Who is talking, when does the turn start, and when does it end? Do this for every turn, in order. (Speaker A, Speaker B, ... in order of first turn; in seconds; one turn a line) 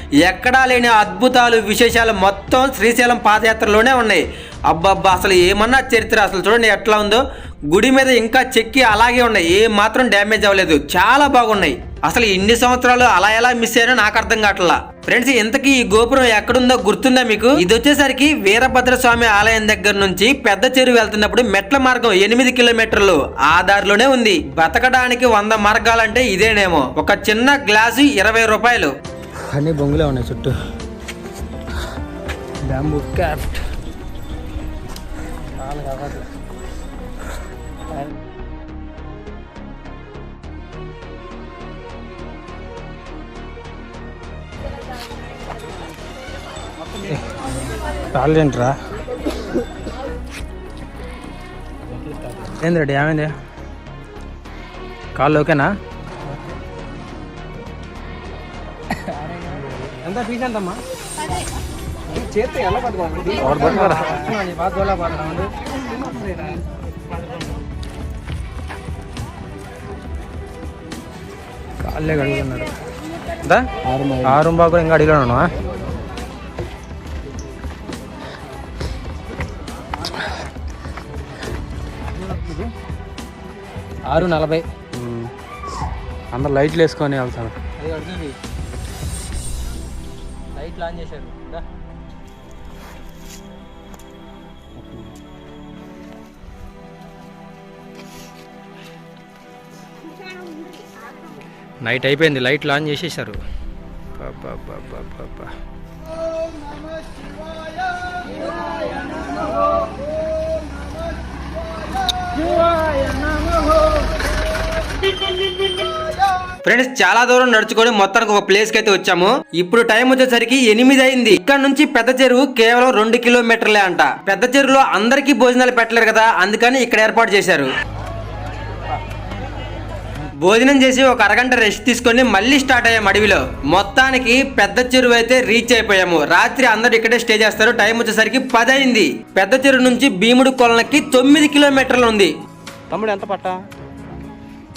Speaker A: 0.2-28.9
Speaker B: 29.5-30.6
Speaker B: 32.7-33.6
Speaker B: 35.6-36.2
Speaker B: 48.1-48.8
Speaker B: 52.4-53.3
Speaker B: 55.1-55.7
Speaker B: 59.1-60.8
Speaker B: 62.1-65.5
Speaker C: 63.5-64.2
Speaker B: 71.8-72.7
Speaker C: 73.8-74.4
Speaker B: 74.2-75.5
Speaker B: 84.1-84.6
Speaker C: 85.0-85.3
Speaker C: 86.3-87.6
Speaker B: 87.8-88.3
Speaker B: 90.5-91.6
Speaker C: 94.8-95.1
Speaker B: 101.8-103.4
Speaker B: 104.2-105.5
Speaker A: 116.7-127.7
Speaker A: 130.4-142.3
Speaker C: 142.9-143.6